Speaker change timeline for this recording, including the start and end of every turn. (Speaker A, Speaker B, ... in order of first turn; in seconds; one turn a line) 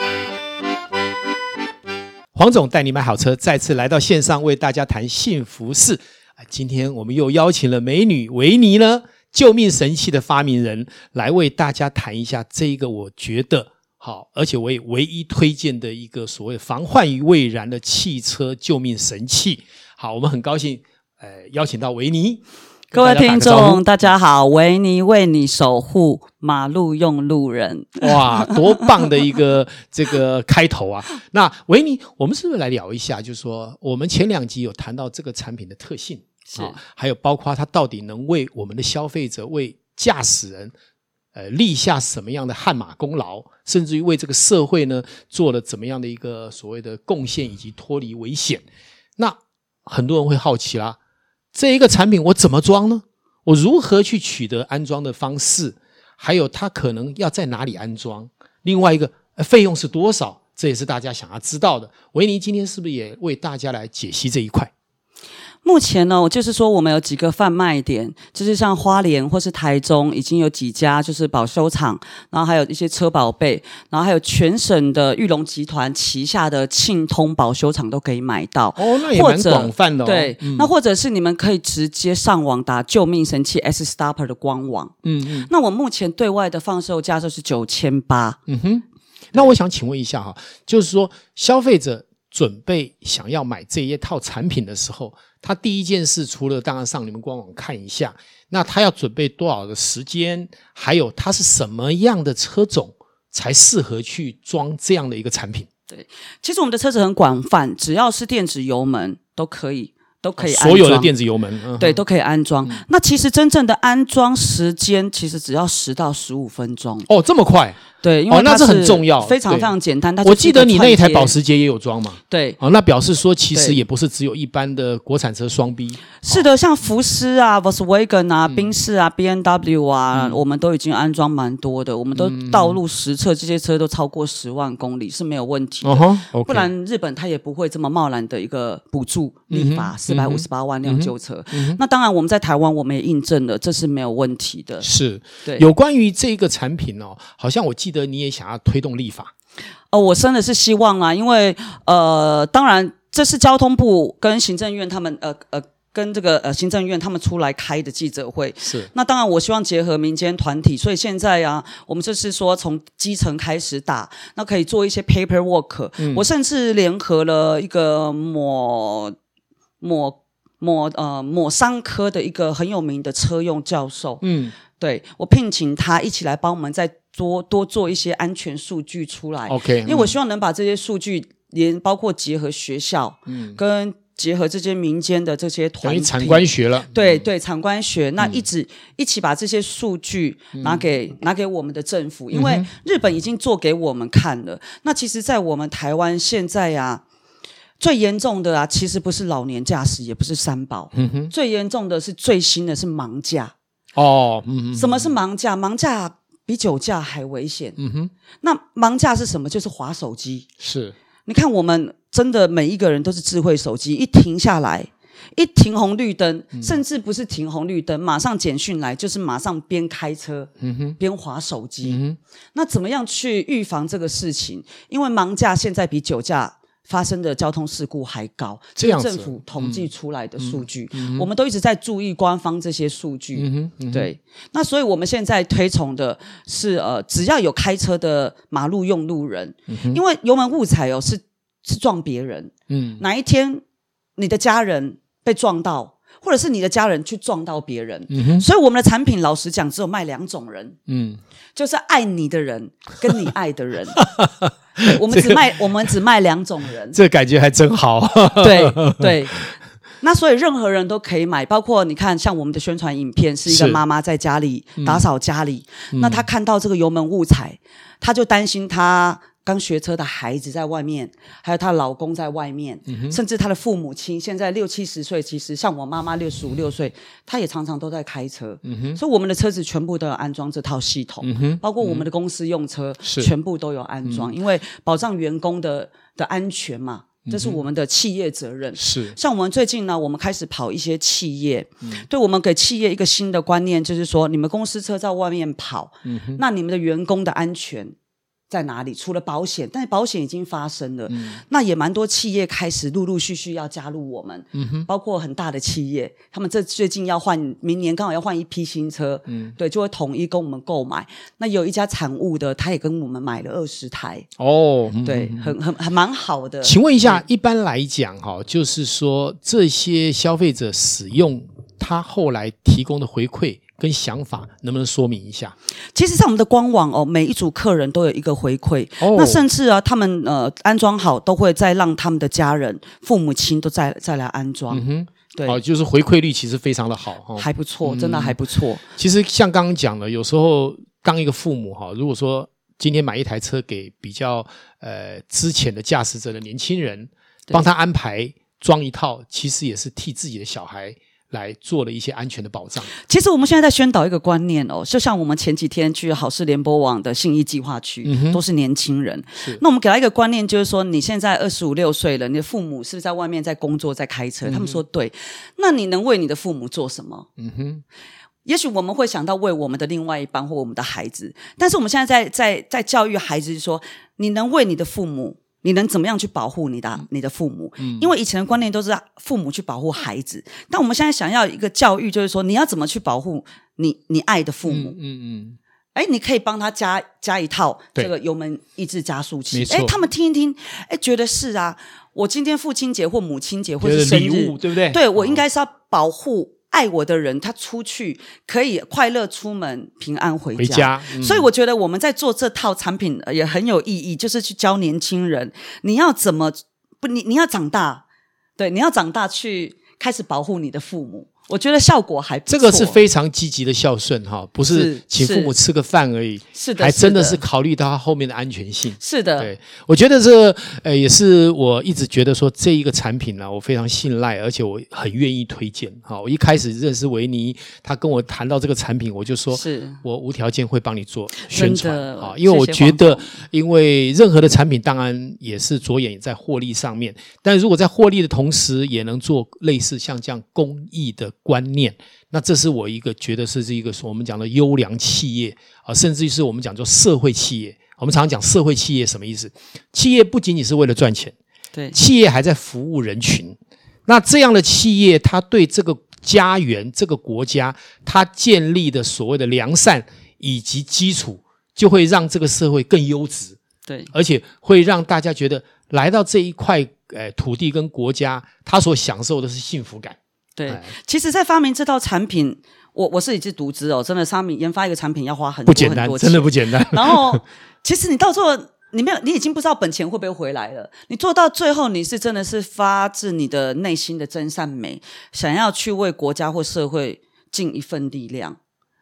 Speaker A: 2.3-23.8
Speaker B: 22.9-28.6
Speaker A: 28.0-40.7
Speaker B: 36.5-36.8
Speaker A: 41.4-48.6
Speaker A: 49.2-51.0
Speaker A: 51.5-64.7
Speaker B: 65.6-84.9
Speaker A: 78.8-80.7
Speaker A: 85.0-85.5
Speaker B: 85.5-88.4
Speaker A: 88.5-105.7
Speaker B: 105.9-111.1
Speaker A: 110.4-112.0
Speaker B: 111.8-117.1
Speaker A: 117.1-126.5
Speaker B: 118.0-121.3
Speaker B: 122.3-122.6
Speaker B: 123.5-123.8
Speaker B: 126.2-144.9
Speaker A: 130.1-130.4
Speaker A: 132.2-132.8
Speaker A: 135.8-136.7
Speaker A: 139.5-141.8
Speaker A: 144.8-149.3
Speaker B: 149.9-169.2
Speaker A: 158.6-158.9
Speaker A: 166.0-166.2
Speaker B: 169.8-174.2
Speaker A: 174.2-174.6
Speaker B: 174.8-197.0
Speaker A: 179.5-180.2
Speaker A: 183.3-183.6
Speaker A: 185.8-187.2
Speaker A: 190.6-190.8
Speaker A: 192.3-192.7
Speaker B: 197.8-203.5
Speaker A: 200.9-201.3
Speaker A: 203.9-205.1
Speaker B: 204.7-207.8
Speaker A: 207.8-208.1
Speaker B: 208.4-210.5
Speaker A: 210.6-210.9
Speaker B: 211.3-222.0
Speaker A: 220.6-221.0
Speaker A: 221.8-222.2
Speaker B: 222.5-243.6
Speaker A: 228.8-229.9
Speaker A: 230.4-231.3
Speaker A: 233.3-234.1
Speaker A: 239.7-240.0
Speaker A: 242.7-243.0
Speaker B: 244.2-250.8
Speaker A: 248.1-248.4
Speaker A: 250.9-251.2
Speaker B: 251.6-254.0
Speaker A: 254.2-255.4
Speaker B: 254.8-257.0
Speaker A: 256.9-259.4
Speaker B: 258.4-259.4
Speaker B: 260.0-297.9
Speaker A: 263.5-263.8
Speaker A: 264.8-265.1
Speaker A: 265.9-266.3
Speaker A: 272.9-273.2
Speaker A: 278.6-279.0
Speaker A: 281.2-282.1
Speaker A: 283.0-283.3
Speaker A: 284.1-284.3
Speaker A: 287.3-287.6
Speaker A: 288.8-289.2
Speaker A: 296.1-296.4
Speaker B: 298.5-314.3
Speaker A: 301.1-301.4
Speaker A: 304.5-304.9
Speaker A: 309.3-309.6
Speaker A: 314.4-315.6
Speaker B: 315.0-317.2
Speaker A: 316.6-325.5
Speaker B: 325.9-335.6
Speaker A: 329.0-329.4
Speaker A: 334.7-338.4
Speaker B: 337.4-338.8
Speaker A: 339.0-352.9
Speaker B: 353.0-367.3
Speaker A: 358.1-358.4
Speaker A: 359.4-359.6
Speaker A: 364.4-364.8
Speaker A: 367.4-367.8
Speaker B: 368.4-385.0
Speaker A: 377.8-378.1
Speaker A: 384.7-385.6
Speaker B: 385.9-408.0
Speaker A: 389.5-389.9
Speaker A: 393.8-395.4
Speaker A: 400.6-401.5
Speaker B: 408.6-413.0
Speaker A: 412.5-451.4
Speaker B: 414.7-415.5
Speaker B: 416.5-417.4
Speaker B: 419.0-419.5
Speaker B: 429.5-430.0
Speaker B: 431.4-433.3
Speaker A: 451.9-453.6
Speaker A: 454.1-463.6
Speaker B: 463.9-464.1
Speaker A: 464.1-470.9
Speaker B: 470.6-488.6
Speaker A: 475.7-477.4